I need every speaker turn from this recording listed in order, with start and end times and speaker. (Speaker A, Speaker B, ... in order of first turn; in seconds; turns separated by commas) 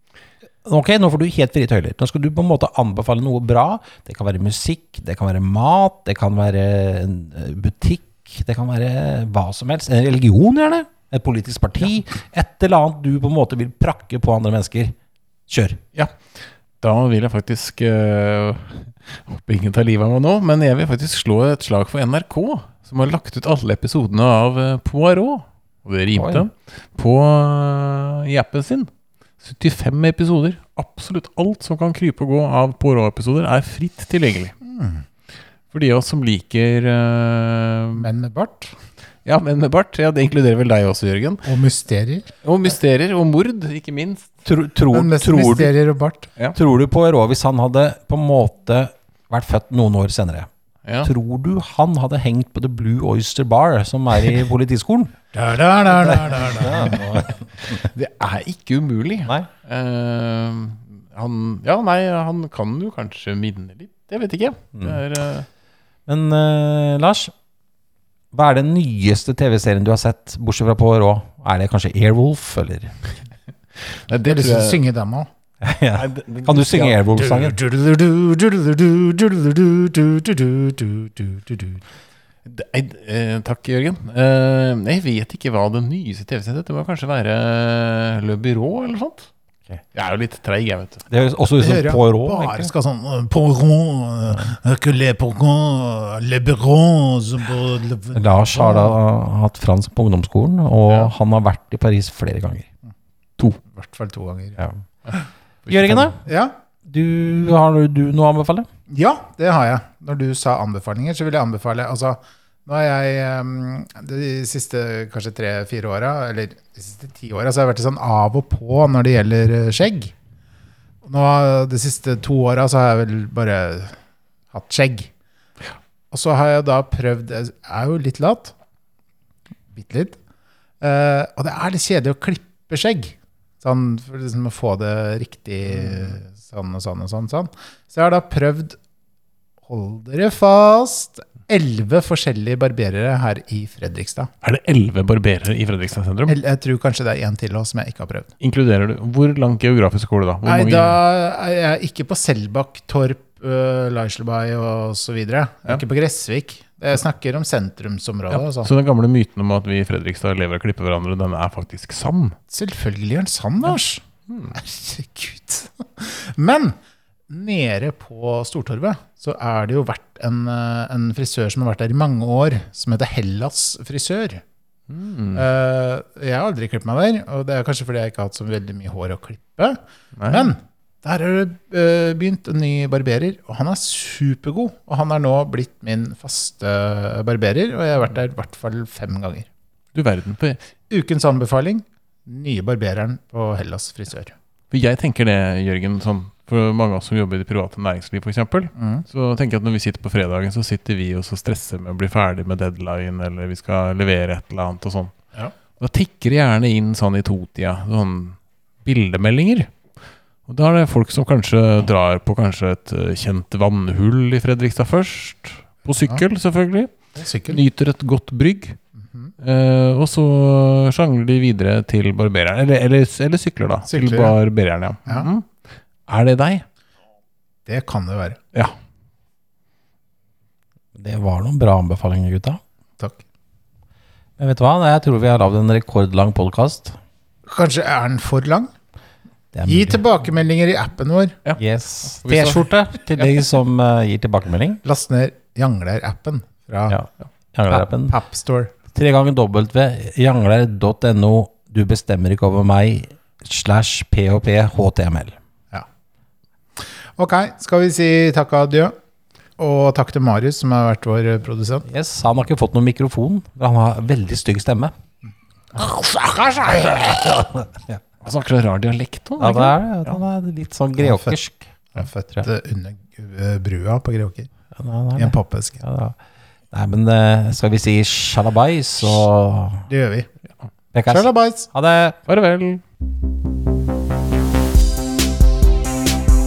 Speaker A: 0.6-14.9, Speaker A: 15.5-15.8, Speaker B: 15.9-34.5, Speaker A: 26.1-26.5, Speaker C: 34.6-35.0, Speaker B: 35.7-38.1, Speaker C: 38.0-38.7, Speaker B: 39.2-41.5, Speaker C: 41.4-42.3, Speaker B: 42.4-44.3, Speaker A: 44.4-45.7, Speaker C: 44.9-46.3, Speaker A: 46.5-50.5, Speaker B: 50.8-51.1, Speaker A: 51.0-55.1, Speaker C: 55.3-57.2, Speaker A: 55.9-57.8, Speaker B: 57.7-65.5, Speaker A: 66.0-67.3, Speaker A: 68.3-73.0, Speaker B: 73.9-74.8, Speaker C: 74.2-75.3, Speaker A: 75.6-77.6, Speaker B: 75.9-77.0, Speaker C: 77.2-81.8, Speaker B: 82.5-89.3, Speaker B: 89.9-91.0, Speaker A: 91.1-92.7, Speaker C: 91.6-99.0, Speaker A: 98.1-102.7, Speaker C: 103.6-104.6, Speaker B: 105.7-106.1, Speaker A: 105.7-106.2, Speaker C: 106.2-106.5, Speaker A: 106.8-108.7, Speaker C: 108.9-120.1, Speaker C: 121.0-124.0, Speaker C: 124.5-125.1, Speaker C: 126.1-128.5, Speaker C: 129.7-130.2, Speaker C: 130.8-138.8, Speaker C: 139.7-144.3, Speaker B: 144.4-146.3, Speaker C: 146.3-148.3, Speaker B: 148.4-151.0, Speaker C: 150.4-158.7, Speaker B: 158.3-162.4, Speaker C: 162.5-166.8, Speaker B: 164.3-164.6, Speaker C: 167.3-174.4, Speaker B: 174.9-175.4, Speaker C: 175.3-189.5, Speaker B: 180.1-180.5, Speaker B: 189.9-190.6, Speaker C: 190.9-194.3, Speaker B: 194.7-205.2, Speaker C: 198.7-199.0, Speaker B: 205.8-209.7, Speaker B: 210.4-218.8, Speaker C: 217.2-217.6, Speaker B: 219.4-226.6, Speaker C: 223.9-224.4, Speaker C: 227.7-228.4, Speaker A: 230.9-232.6, Speaker A: 234.4-237.0, Speaker C: 237.5-238.7, Speaker A: 239.5-240.0, Speaker C: 239.6-241.4, Speaker A: 241.6-244.8, Speaker B: 242.2-242.7, Speaker C: 244.8-247.0, Speaker A: 246.9-248.2, Speaker C: 247.7-248.7, Speaker A: 248.9-255.3, Speaker C: 256.8-258.9, Speaker C: 259.6-261.9, Speaker A: 261.9-264.9, Speaker C: 265.7-267.4, Speaker A: 267.6-268.0, Speaker B: 268.2-270.2, Speaker A: 269.4-271.7, Speaker C: 271.0-271.4, Speaker C: 271.9-274.5, Speaker A: 274.8-276.1, Speaker C: 275.1-275.8, Speaker A: 276.7-279.9, Speaker C: 279.9-280.3, Speaker A: 280.9-282.2, Speaker C: 281.1-281.7, Speaker B: 282.2-282.8